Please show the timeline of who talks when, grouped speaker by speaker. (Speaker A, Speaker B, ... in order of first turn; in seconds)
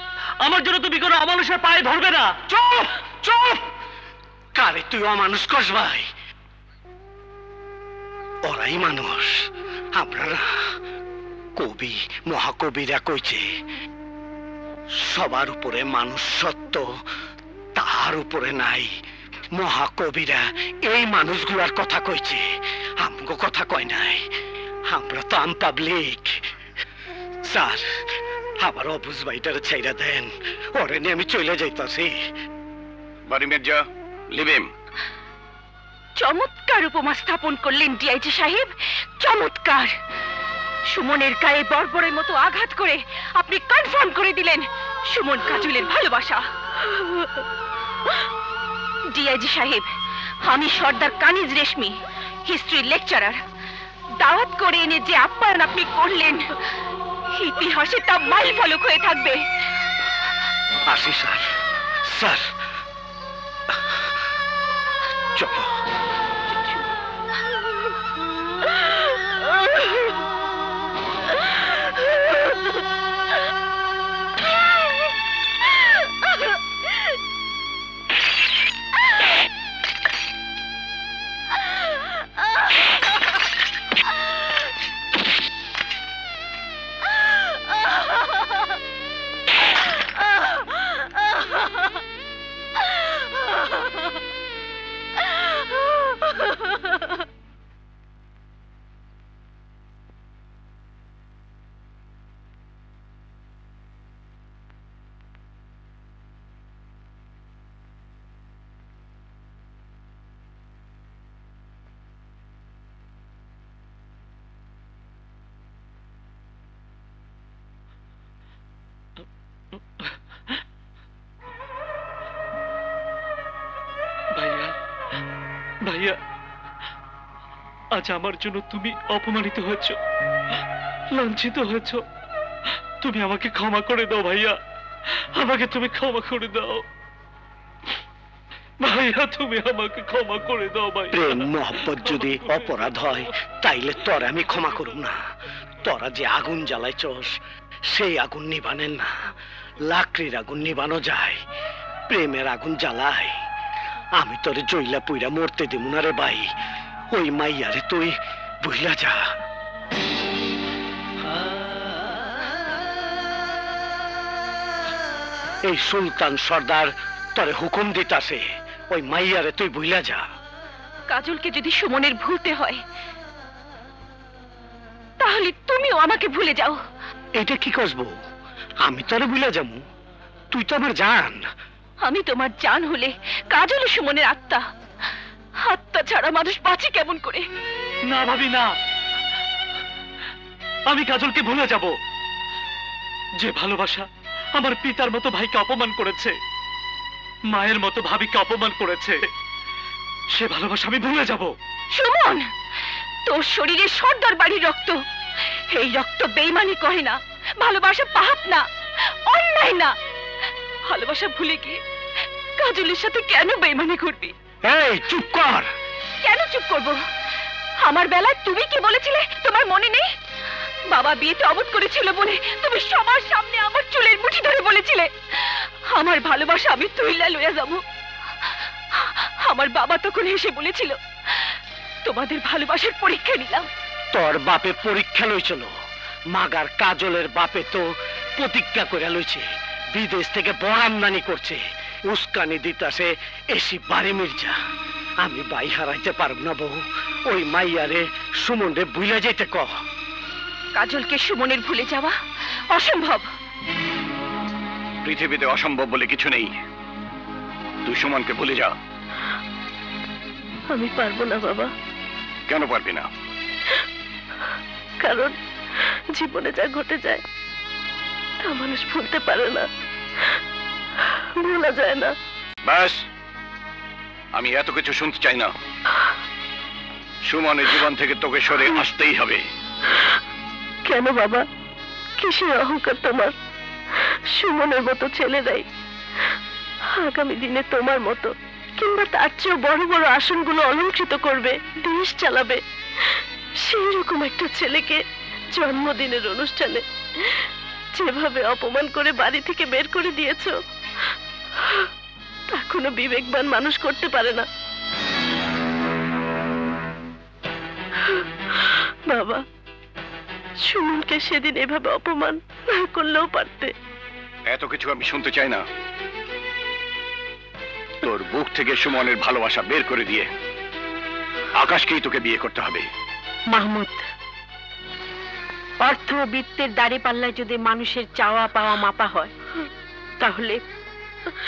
Speaker A: 0.4-2.4, 124.4-124.7, 125.9-126.2, 128.0-130.0, 131.2-132.0, 133.0-134.6, 135.4-136.8, 138.8-141.5, 142.2-142.6, 188.1-188.7, 190.9-191.9, 193.4-194.1, 194.6-196.3, 197.5-199.2, 200.3-201.6
Speaker B: 2.5-3.6, 4.6-6.1, 8.4-9.4, 9.9-10.5, 11.6-13.4, 15.0-16.9, 17.8-18.9, 19.5-22.4, 23.0-24.2, 24.9-26.4, 27.5-27.9, 28.6-32.1, 60.9-61.5, 62.1-62.5, 65.4-65.7, 141.1-145.2, 145.8-147.4, 147.9-149.1, 149.9-151.4, 152.1-153.3, 154.2-156.5, 157.1-159.2, 165.7-170.2, 177.4-178.1, 178.8-179.8, 180.5-181.4, 214.7-215.7, 234.1-235.7, 236.3-237.8, 238.4-244.6, 245.2-249.7
Speaker C: 33.3-34.7, 255.1-256.5, 257.9-258.7, 262.5-263.1, 272.6-273.0, 274.3-275.5, 277.3-279.4, 314.5-315.6, 318.0-320.3, 321.6-322.9
Speaker D: 36.2-40.0, 40.9-46.5, 49.1-49.9, 50.5-53.4, 54.2-56.5, 57.3-59.4, 171.1-172.8, 175.2-176.8, 182.0-184.6, 185.6-187.4, 201.9-202.5, 203.3-205.0, 205.7-208.7, 209.3-209.9, 210.9-211.8, 212.6-214.3, 216.2-217.0, 217.8-220.1, 220.9-227.8, 229.0-231.0, 232.1-233.7, 250.8-252.2, 252.7-253.3
Speaker E: 260.7-261.7, 265.0-265.4, 266.2-267.2, 268.5-269.6, 271.4-272.1, 280.9-281.4, 282.2-283.3, 284.4-285.6, 287.0-292.6, 293.6-295.0, 295.5-297.4, 298.0-300.5, 302.5-304.5, 308.6-309.4, 310.7-313.7
Speaker F: 323.5-324.0, 325.8-329.3, 330.2-330.6